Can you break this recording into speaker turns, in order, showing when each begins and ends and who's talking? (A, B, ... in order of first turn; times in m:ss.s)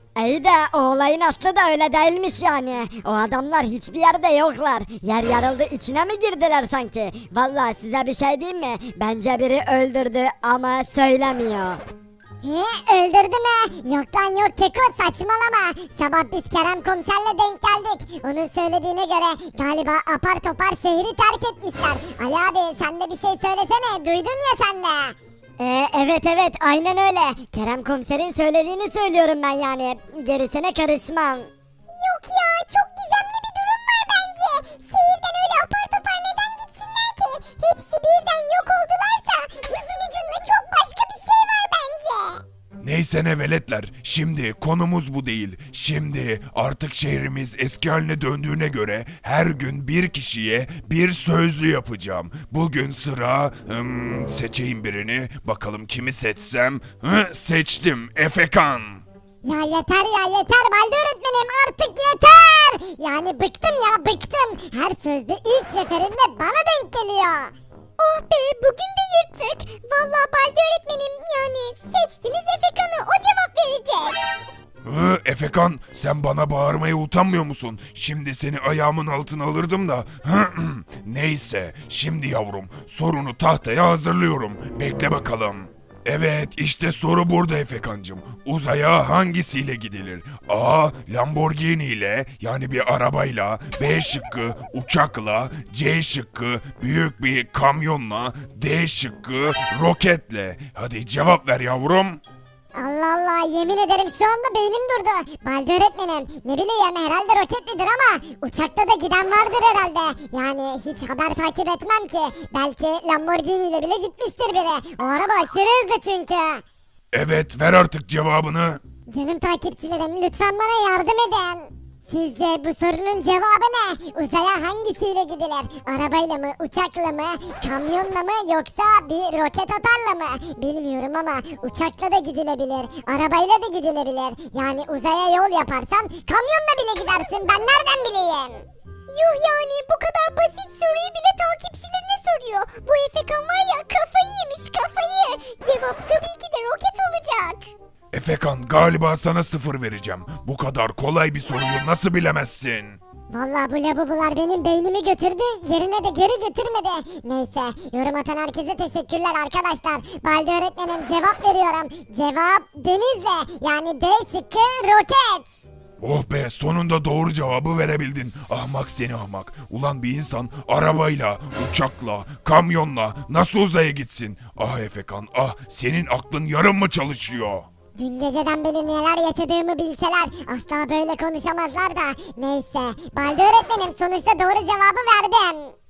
0:00.2-0:11.8 A
0:12.4-0:25.1 B
0:25.6-0:31.5 A
0:32.0-0:42.4 B
0:42.8-0:59.0 C
0:59.4-1:14.2 B
1:14.8-1:42.2 C
1:42.8-1:56.6 B
1:57.1-1:58.8 C
1:59.1-2:27.7 B
2:28.1-2:33.0 C
2:33.3-2:45.5 B
2:46.0-2:57.7 C
2:58.0-3:05.7 B